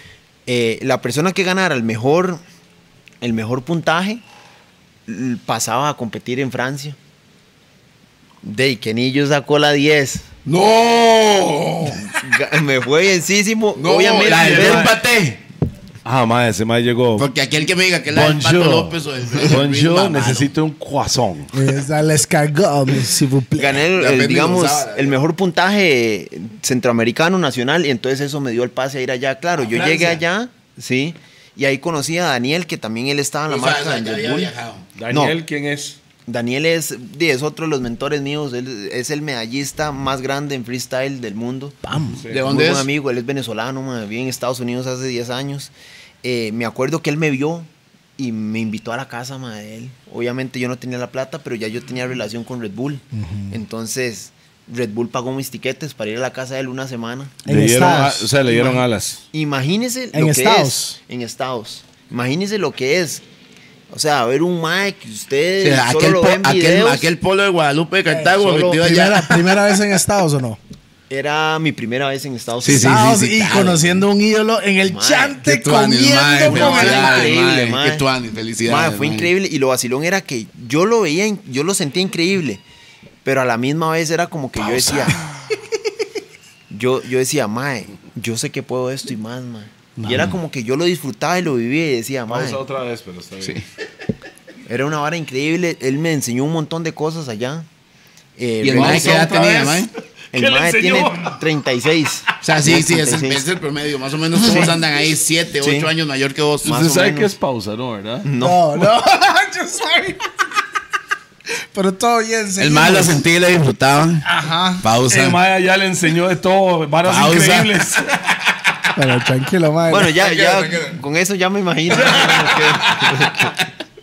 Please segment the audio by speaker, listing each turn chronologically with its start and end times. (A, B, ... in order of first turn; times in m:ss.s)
0:00.5-0:02.4 A
0:03.2-0:04.2 A
0:05.1-0:07.0 A
0:08.4-0:10.2 A
0:10.4-0:12.1 B
0:11.9-0:14.9 A
0:13.8-0:15.4 B
0:14.3-0:14.9 C
0:16.0-0:17.3 C
0:17.2-0:20.5 B
0:18.1-0:21.5 C
0:21.5-0:23.8 D
0:23.5-0:34.5 A
0:23.9-0:25.2 B
0:29.6-0:30.2 B
0:33.5-0:34.9 B
0:34.9-0:36.0 C
0:35.1-0:35.4 A
0:36.3-0:41.8 A
0:41.8-0:42.2 D
0:42.3-0:42.9 B
0:42.4-0:45.7 A
0:46.2-0:58.8 A
0:53.1-0:53.5 D
0:57.4-0:58.7 D
0:57.5-0:59.2 C
0:59.3-1:03.2 A
1:00.1-1:01.0 D
1:03.9-1:07.1 A
1:05.6-1:09.6 B
1:08.1-1:10.6 D
1:08.3-1:08.8 A
1:11.1-1:13.1 A
1:12.6-1:14.0 B
1:12.7-1:17.3 D
1:14.9-1:15.4 A
1:15.4-1:19.3 B
1:16.4-1:18.0 A
1:18.6-1:22.6 A
1:23.2-1:25.2 A
1:24.8-1:25.1 B
1:26.7-1:32.6 A
1:30.0-1:30.3 B
1:32.3-1:33.6 C
1:34.6-1:37.6 A
1:38.4-1:39.7 A
1:38.6-1:39.9 B
1:38.7-1:41.4 C
1:40.3-1:43.4 A
1:42.4-1:46.7 B
1:44.4-1:44.8 A
1:45.6-1:45.9 A
1:46.6-1:47.3 A
1:46.6-1:48.3 C
1:48.2-1:48.7 A
1:48.4-1:50.2 D
1:51.7-1:53.2 D
1:52.6-1:54.3 B
1:54.3-1:54.8 D
1:54.8-1:55.4 B
1:55.1-1:58.1 C
1:57.0-1:58.7 B
1:58.9-2:00.1 D
1:59.9-2:03.5 A
2:00.1-2:01.0 B
2:01.9-2:03.5 B